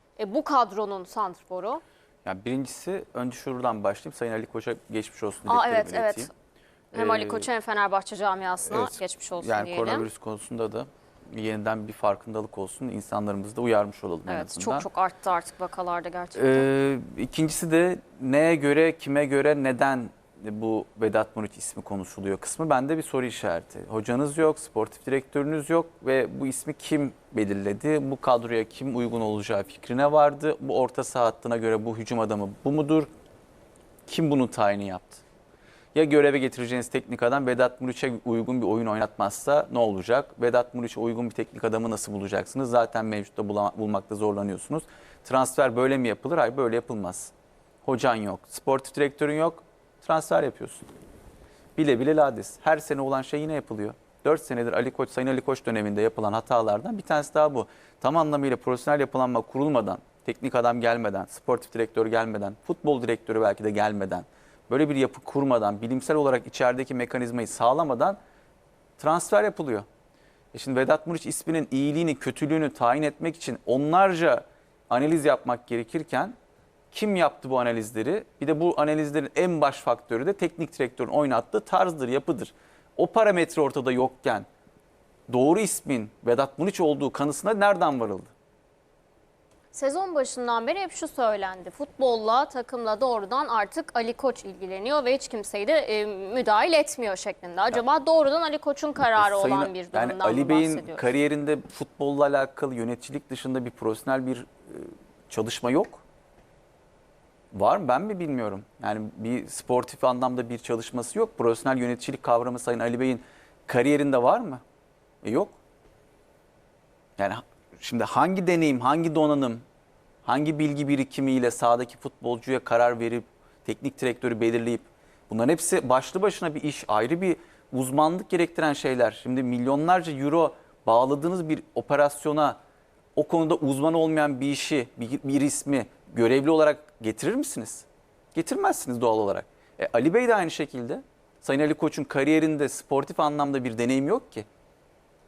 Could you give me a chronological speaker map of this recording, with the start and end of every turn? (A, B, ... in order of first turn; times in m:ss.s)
0:00.2-0:01.8 A
0:02.2-0:06.3 B
0:05.4-0:06.3 A
0:06.9-0:10.1 A
0:06.9-0:07.5 B
0:08.6-0:14.9 B
0:14.3-0:16.6 A
0:16.3-0:33.1 B
0:34.0-0:35.2 B
0:35.9-0:47.3 B
0:47.8-0:50.9 B
0:51.8-1:08.2 B
1:09.0-1:09.9 B
1:10.5-1:16.4 B
1:16.9-1:24.5 B
1:25.3-1:28.3 B
1:29.7-1:41.1 A
1:39.2-1:46.0 B
1:47.5-1:54.6 B
1:55.2-1:55.5 B
1:57.2-1:59.6 B
2:00.2-2:12.6 B
2:13.2-2:24.4 B